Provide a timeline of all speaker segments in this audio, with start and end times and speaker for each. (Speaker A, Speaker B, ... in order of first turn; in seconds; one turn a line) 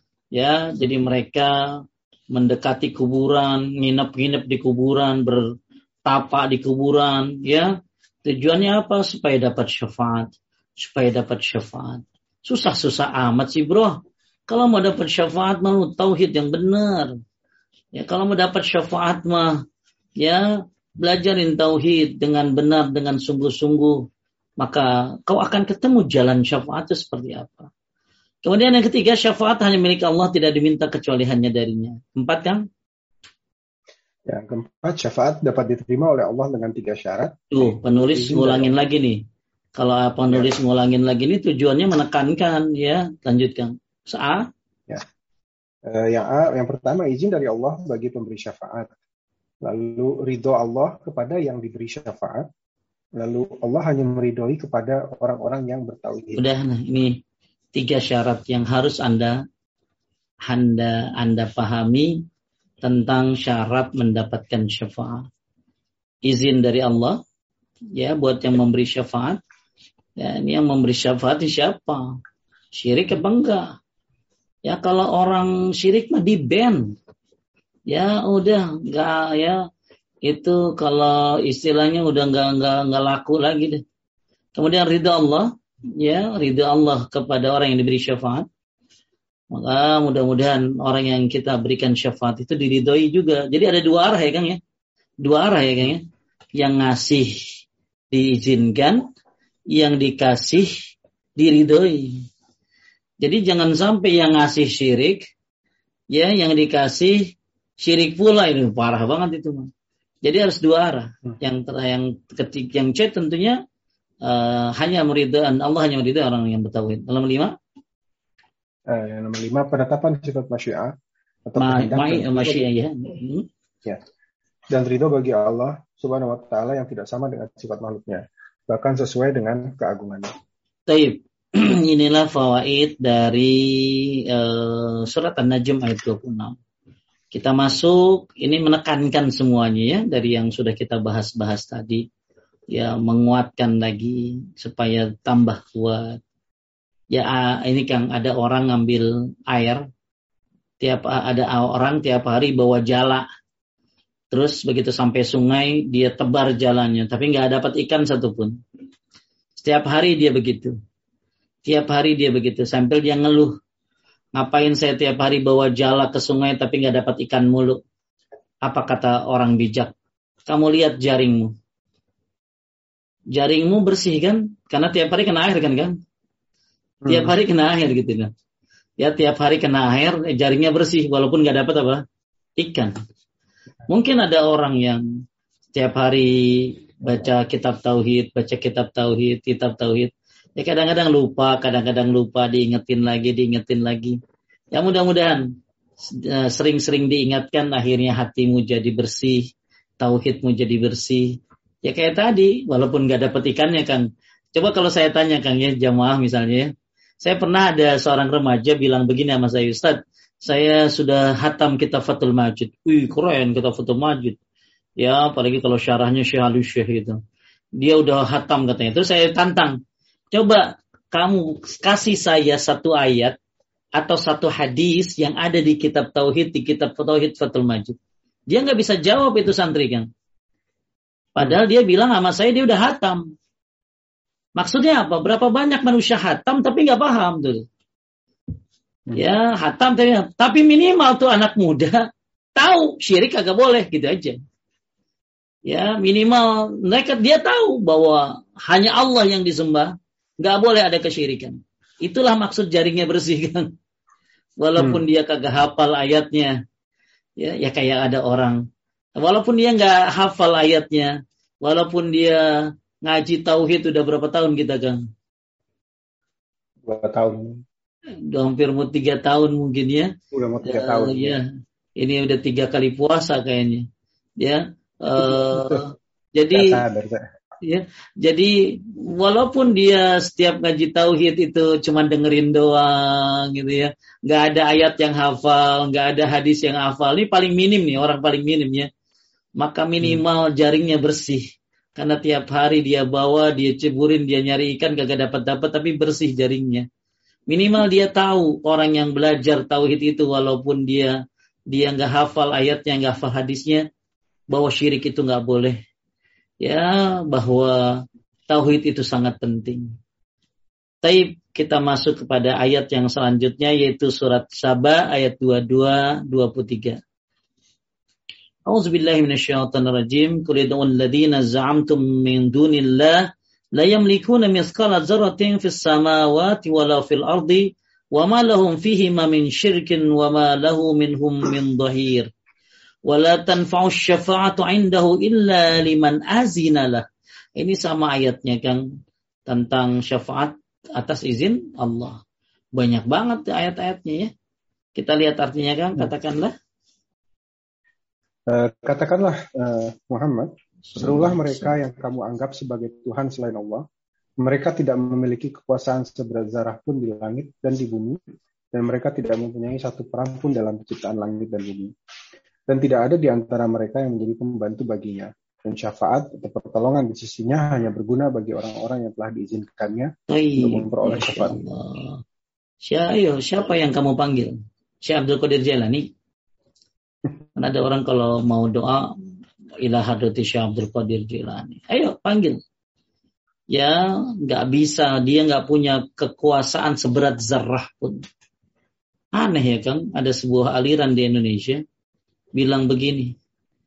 Speaker A: 0.3-5.4
Speaker A: 6.0-7.7
Speaker A: 8.2-17.1
Speaker A: 17.9-19.6
Speaker A: 20.2-20.5
Speaker A: 21.0-24.1
Speaker A: 24.6-27.7
Speaker A: 28.4-32.6
Speaker B: 34.3-38.7
Speaker A: 37.5-39.2
Speaker A: 39.8-44.5
Speaker B: 45.9-48.9
Speaker B: 49.6-52.5
Speaker B: 53.2-56.4
Speaker A: 56.4-57.2
Speaker A: 57.7-59.4
Speaker A: 60.5-62.2
Speaker A: 62.8-65.2
Speaker A: 66.2-67.2
Speaker A: 67.9-69.4
Speaker A: 70.2-72.1
Speaker A: 72.7-73.8
Speaker A: 74.6-76.9
Speaker A: 77.9-79.6
Speaker A: 80.2-83.8
Speaker A: 84.5-88.5
Speaker A: 89.5-94.6
Speaker A: 95.2-96.0
Speaker A: 96.6-97.3
Speaker A: 98.1-99.0
Speaker A: 99.7-100.7
Speaker A: 101.4-102.2
Speaker A: 103.2-105.2
Speaker A: 106.1-109.7
Speaker A: 110.2-113.6
Speaker A: 114.2-117.5
Speaker B: 118.9-120.9
Speaker B: 121.5-122.6
Speaker A: 121.6-123.5
Speaker B: 124.7-130.3
Speaker A: 130.9-136.6
Speaker A: 137.3-142.0
Speaker A: 142.7-146.2
Speaker A: 147.1-149.9
Speaker A: 150.8-153.3
Speaker A: 154.3-158.5
Speaker A: 159.6-160.7
Speaker A: 161.7-163.5
Speaker A: 164.4-167.8
Speaker A: 168.6-169.9
Speaker A: 170.5-171.5
Speaker A: 173.3-175.9
Speaker B: 177.0-177.3
Speaker A: 177.1-178.3
Speaker A: 179.0-182.0
Speaker A: 182.6-182.9
Speaker A: 183.9-185.0
Speaker A: 185.7-194.2
Speaker A: 194.7-195.5
Speaker A: 196.0-206.7
Speaker A: 207.2-214.4
Speaker A: 215.0-217.2
Speaker A: 217.8-219.8
Speaker A: 220.3-223.3
Speaker A: 224.0-227.9
Speaker A: 228.5-230.1
Speaker A: 231.3-233.2
Speaker A: 234.6-237.6
Speaker A: 239.1-242.0
Speaker A: 242.6-244.4
Speaker A: 245.7-253.7
Speaker A: 254.6-256.6
Speaker B: 254.8-255.0
Speaker A: 257.4-258.6
Speaker A: 259.2-262.4
Speaker A: 263.0-265.0
Speaker B: 266.8-267.6
Speaker A: 268.3-270.1
Speaker B: 270.3-271.4
Speaker A: 270.6-271.4
Speaker A: 272.0-273.9
Speaker A: 274.4-276.8
Speaker B: 275.2-275.8
Speaker B: 276.5-277.3
Speaker A: 277.6-288.9
Speaker A: 289.6-291.4
Speaker A: 291.9-296.9
Speaker A: 297.5-301.2
Speaker A: 301.7-303.8
Speaker A: 304.5-305.8
Speaker A: 306.6-309.9
Speaker A: 311.0-317.0
Speaker A: 318.7-323.2
Speaker A: 323.8-332.3
Speaker A: 333.1-337.0
Speaker A: 337.6-338.8
Speaker A: 339.5-342.2
Speaker A: 342.8-344.3
Speaker A: 344.9-346.5
Speaker B: 348.5-353.8
Speaker A: 350.9-351.7
Speaker B: 354.4-358.2
Speaker B: 358.7-361.9
Speaker B: 362.7-371.6
Speaker A: 370.3-372.2
Speaker A: 372.8-376.1
Speaker A: 377.6-379.1
Speaker A: 379.8-382.6
Speaker A: 383.7-388.2
Speaker A: 389.3-391.8
Speaker A: 392.5-393.4